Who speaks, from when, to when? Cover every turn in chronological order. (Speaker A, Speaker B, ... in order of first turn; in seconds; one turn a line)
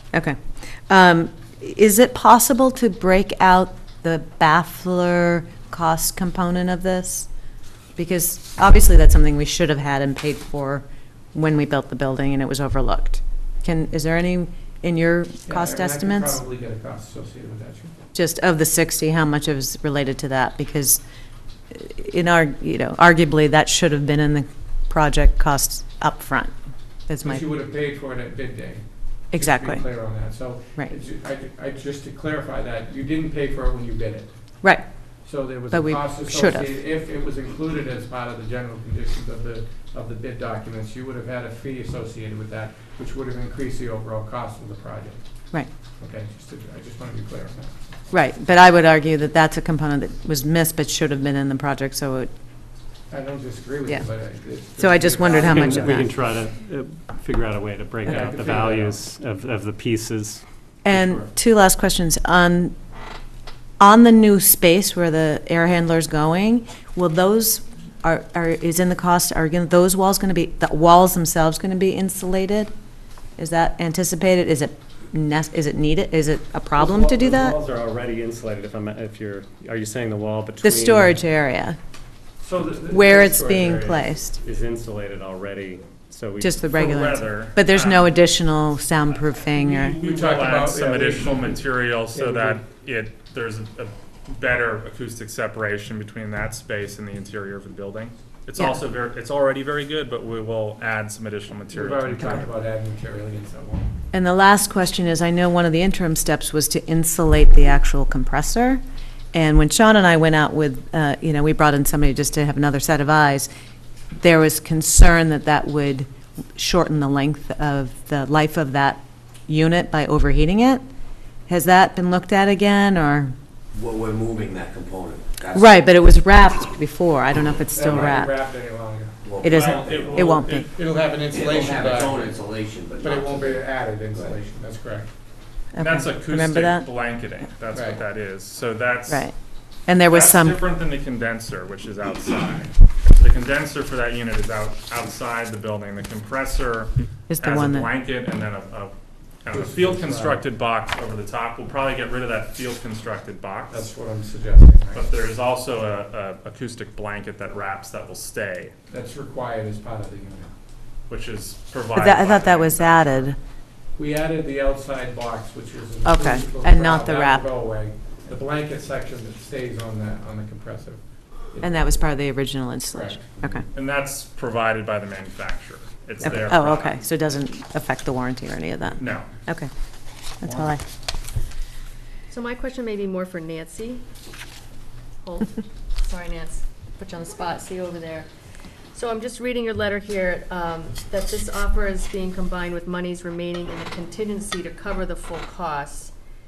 Speaker A: 0.1-7.3
Speaker A: 8.0-16.4
Speaker B: 15.5-17.9
Speaker A: 18.1-21.0
Speaker A: 21.7-26.5
Speaker A: 27.1-27.4
Speaker B: 27.2-34.7
Speaker A: 29.3-29.9
Speaker B: 35.2-48.0
Speaker A: 35.7-36.7
Speaker A: 48.1-52.3
Speaker B: 53.1-56.1
Speaker A: 54.8-56.1
Speaker C: 55.3-60.4
Speaker B: 58.0-59.0
Speaker A: 60.9-62.8
Speaker A: 63.8-72.7
Speaker A: 73.4-77.6
Speaker C: 76.7-81.2
Speaker A: 80.6-81.8
Speaker B: 82.4-84.0
Speaker A: 82.9-84.4
Speaker C: 84.4-86.6
Speaker A: 86.4-90.0
Speaker D: 86.7-88.1
Speaker D: 89.5-102.5
Speaker B: 90.0-91.6
Speaker B: 92.1-92.6
Speaker B: 101.7-103.9
Speaker A: 104.1-108.8
Speaker A: 109.3-113.5
Speaker A: 114.1-120.8
Speaker A: 121.5-123.3
Speaker E: 123.8-124.5
Speaker E: 125.3-125.6
Speaker A: 125.5-128.3
Speaker B: 127.7-129.2
Speaker E: 129.3-129.9
Speaker A: 129.4-130.7
Speaker D: 129.4-130.7
Speaker B: 130.7-135.1
Speaker E: 131.5-133.3
Speaker A: 135.8-136.9
Speaker D: 135.8-139.3
Speaker B: 137.7-138.0
Speaker A: 139.1-139.3
Speaker D: 139.8-153.9
Speaker A: 139.9-140.6
Speaker A: 147.3-147.9
Speaker B: 149.5-150.4
Speaker B: 153.7-155.1
Speaker D: 154.9-158.7
Speaker B: 158.9-160.5
Speaker D: 161.1-163.3
Speaker A: 161.9-163.4
Speaker B: 164.0-171.9
Speaker A: 166.1-167.5
Speaker A: 171.6-173.7
Speaker B: 172.9-173.3
Speaker D: 173.7-177.0
Speaker A: 176.2-179.7
Speaker D: 179.0-179.3
Speaker A: 180.4-180.8
Speaker F: 182.3-184.0
Speaker F: 185.2-188.3
Speaker F: 188.9-196.1